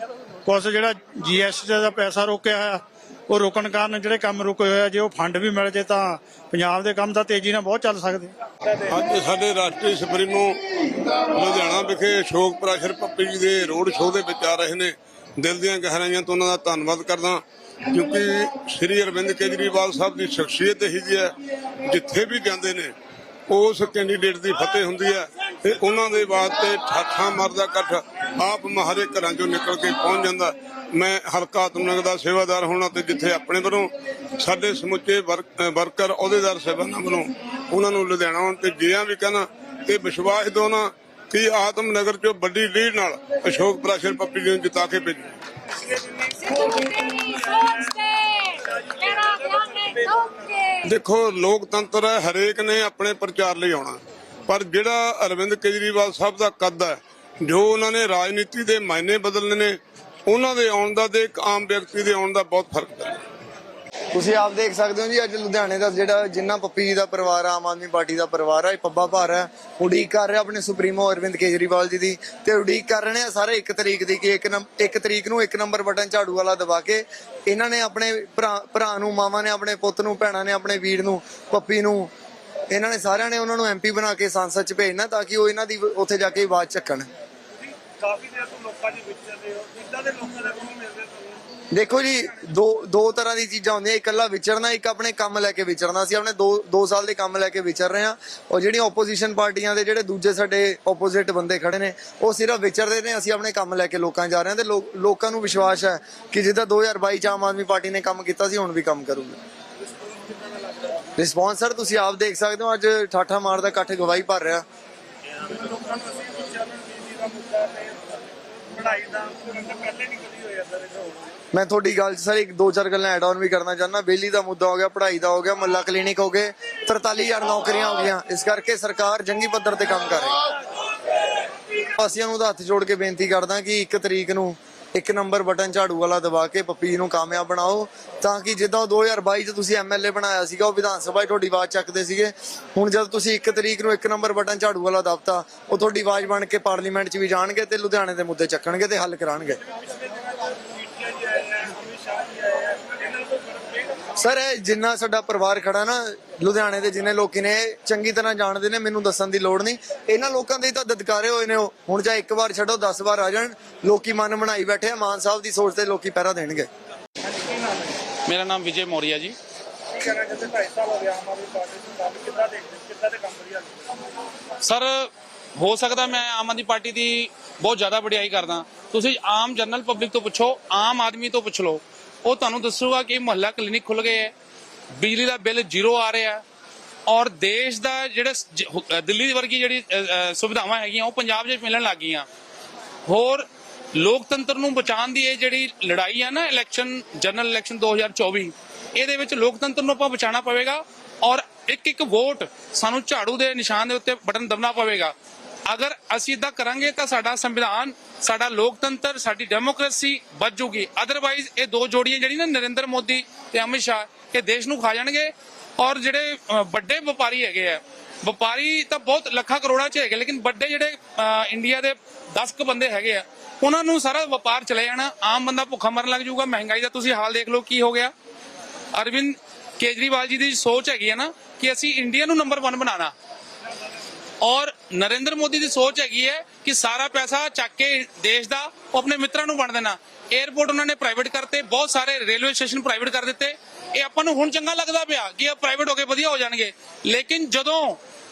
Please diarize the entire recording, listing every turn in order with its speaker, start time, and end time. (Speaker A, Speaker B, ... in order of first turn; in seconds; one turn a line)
Speaker A: 0.5-8.3
Speaker B: 8.9-10.6
Speaker B: 11.3-22.9
Speaker B: 23.5-45.3
Speaker C: 45.9-50.5
Speaker B: 50.8-63.1
Speaker D: 64.1-82.1
Speaker D: 82.7-87.1
Speaker C: 87.8-91.3
Speaker D: 91.7-109.4
Speaker C: 110.1-111.0
Speaker D: 111.2-114.6
Speaker C: 115.5-121.2
Speaker D: 121.5-130.4
Speaker D: 132.0-149.6
Speaker C: 149.9-154.0
Speaker D: 154.2-166.7
Speaker C: 167.3-167.9
Speaker E: 168.3-169.3
Speaker C: 169.9-173.8
Speaker E: 174.6-184.3
Speaker E: 185.0-186.4
Speaker E: 187.1-192.3
Speaker E: 193.1-205.1
Speaker E: 205.7-228.1
Speaker E: 228.9-233.1
Speaker E: 234.4-248.0